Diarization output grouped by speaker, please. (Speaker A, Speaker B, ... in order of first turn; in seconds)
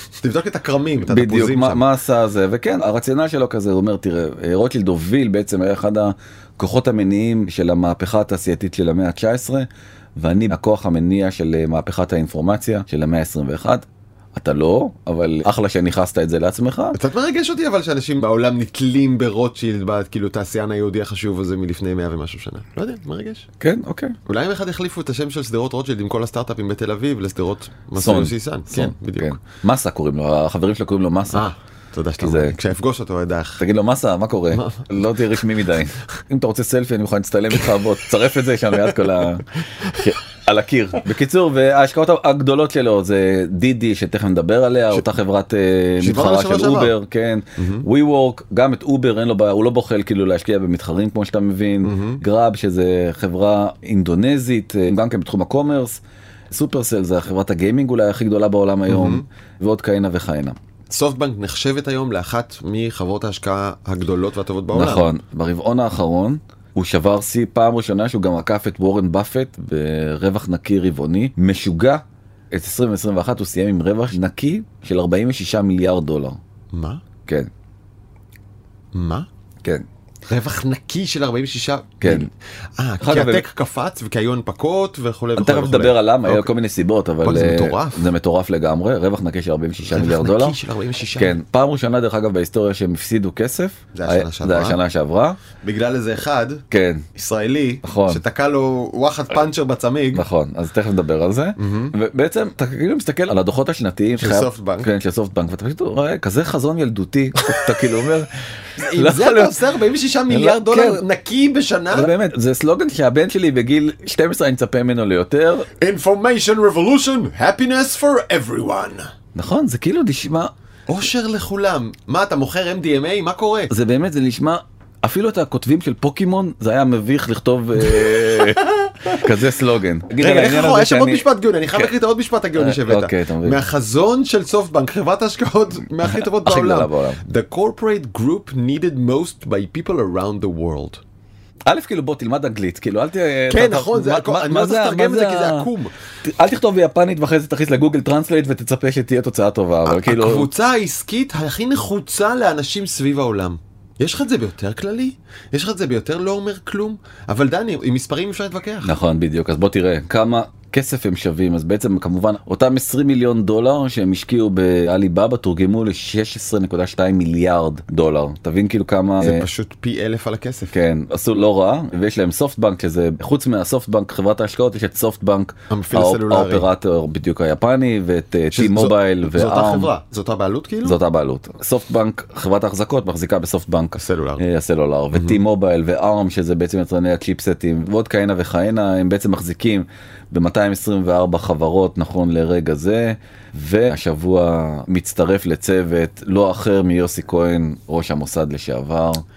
Speaker A: 0.2-1.9, 16.9-23.5, 24.3-29.4, 31.3-33.6, 34.5-34.9, 46.0-46.9, 47.6-47.9, 51.8-52.2, 58.9-59.2, 60.9-65.1, 76.7-77.0, 78.9-79.3, 80.3-86.5, 87.2-88.0, 89.9-91.4, 93.9-94.8, 95.6-100.3, 101.6-101.9, 104.2-104.9, 108.8-112.1, 115.8-119.1, 120.9-123.7, 127.9-129.2, 130.2-141.0, 143.5-145.9, 149.9-158.9, 169.2-170.7, 175.7-176.7, 178.5-181.0, 184.0-184.4, 185.1-185.4
Speaker B: 1.1-17.0, 23.6-24.2, 28.0-31.5, 32.2-32.6, 33.6-56.0, 56.5-60.6, 64.7-76.4, 82.0-82.3, 83.0-83.5, 85.4-90.6, 91.2-95.4, 96.7-97.1, 97.8-98.2, 100.1-109.6, 110.3-111.0, 111.9-115.7, 119.3-120.5, 123.7-131.9, 132.6-133.6, 136.0-137.2, 141.7-145.7, 146.2-150.5, 158.8-169.5, 170.7-179.9, 180.8-199.2